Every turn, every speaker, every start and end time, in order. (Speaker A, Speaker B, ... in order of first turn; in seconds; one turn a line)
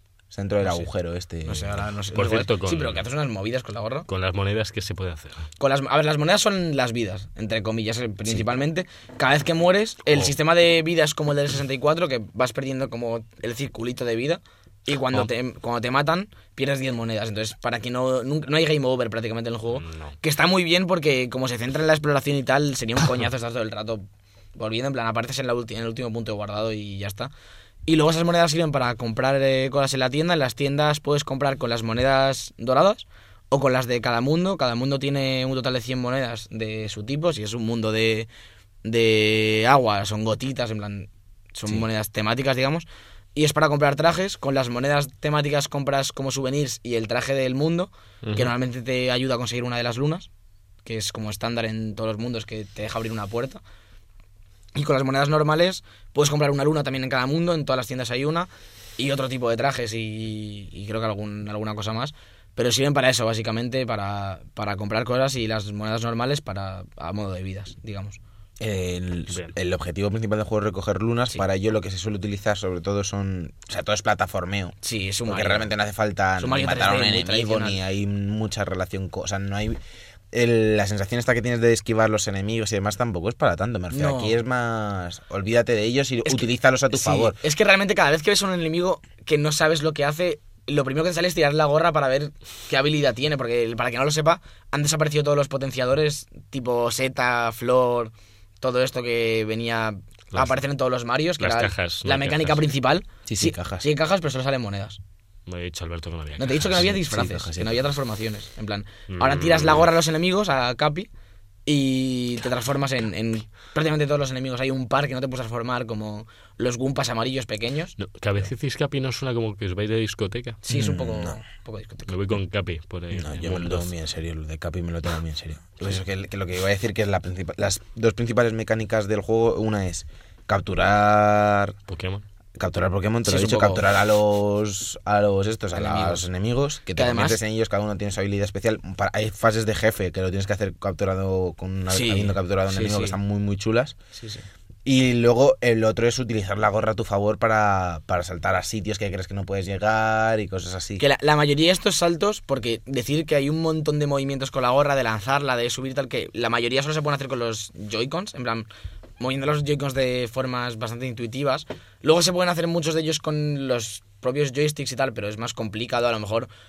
Speaker A: 0.3-1.8
Speaker B: 1.4-4.1
Speaker C: 2.1-3.0
Speaker C: 4.1-5.5
Speaker B: 5.6-24.0
Speaker C: 19.7-20.1
Speaker B: 24.6-27.3
Speaker B: 27.9-38.3
Speaker B: 38.8-50.3
Speaker C: 48.2-48.5
Speaker B: 50.8-53.6
Speaker B: 54.7-68.2
Speaker A: 68.6-74.7
Speaker B: 74.8-75.7
Speaker A: 75.2-79.8
Speaker B: 76.4-77.8
Speaker A: 80.3-87.4
Speaker B: 83.9-84.3
Speaker B: 86.2-105.0
Speaker C: 100.3-100.6
Speaker C: 101.4-102.6
Speaker A: 103.3-103.9
Speaker C: 105.5-106.7
Speaker B: 106.4-111.1
Speaker A: 106.7-107.8
Speaker C: 109.1-109.9
Speaker B: 111.7-117.9
Speaker C: 118.0-120.6
Speaker B: 120.6-122.1
Speaker A: 120.7-121.4
Speaker C: 122.1-123.9
Speaker A: 123.1-131.8
Speaker C: 131.9-132.2
Speaker A: 132.6-143.9
Speaker B: 133.2-133.9
Speaker B: 135.7-136.2
Speaker B: 136.9-137.4
Speaker B: 141.9-143.2
Speaker B: 144.1-144.4
Speaker A: 144.8-151.0
Speaker B: 151.0-158.7
Speaker B: 159.2-166.5